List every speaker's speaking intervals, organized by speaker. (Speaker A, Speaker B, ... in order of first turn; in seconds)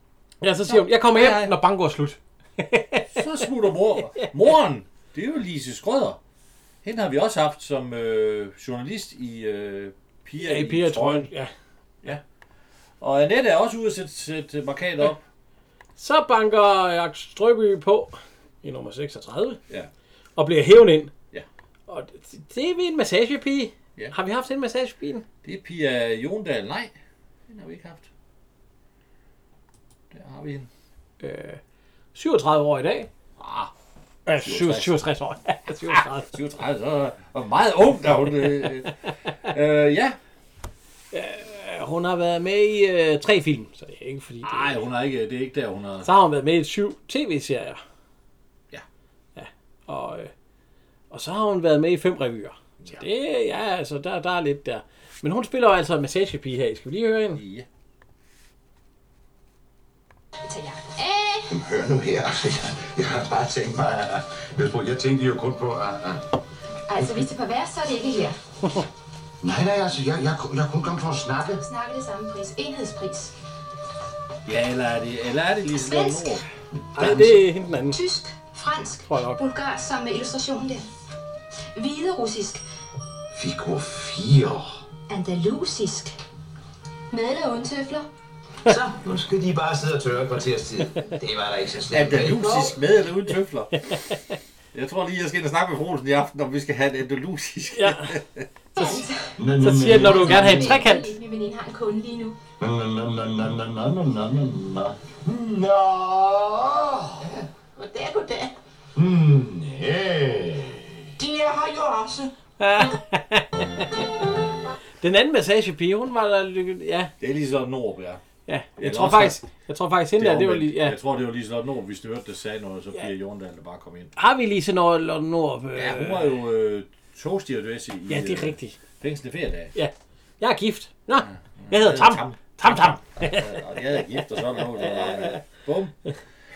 Speaker A: 0.4-3.2, 10.4-11.5, 16.0-19.6, 20.4-21.1, 21.9-25.2, 31.2-31.6, 32.1-33.1, 34.3-36.3, 41.1-44.8, 46.0-47.8, 49.4-50.3, 51.1-57.4, 77.0-78.0, 79.1-79.4, 93.9-94.2, 97.7-98.2, 99.6-101.1, 112.6-113.9, 115.0-117.1, 118.5-121.0, 124.2-126.3, 128.1-128.8, 129.8-133.5, 135.0-135.3
Speaker B: 0.7-1.6, 3.1-6.2, 6.8-11.3, 13.0-15.2, 25.4-26.9, 27.5-28.1, 30.1-30.7, 33.4-33.7, 34.4-35.1, 35.9-40.2, 44.4-46.1, 57.3-57.7, 74.5-76.4, 91.9-93.8, 94.7-98.5, 117.2-118.2, 118.8-119.4, 120.2-124.1, 125.8-129.7, 131.2-135.9
Speaker C: 60.5-61.5, 66.9-68.4, 71.6-73.3, 75.7-76.4, 77.9-80.9, 81.8-82.6, 85.1-86.2, 87.1-88.1, 98.8-102.4
Speaker D: 61.5-66.3, 67.0-67.2, 69.4-71.6, 77.0-77.3, 83.3-84.8, 99.4-100.7, 102.6-107.2, 109.0-110.9
Speaker E: 88.7-92.7
Speaker F: 107.2-108.5, 111.2-112.3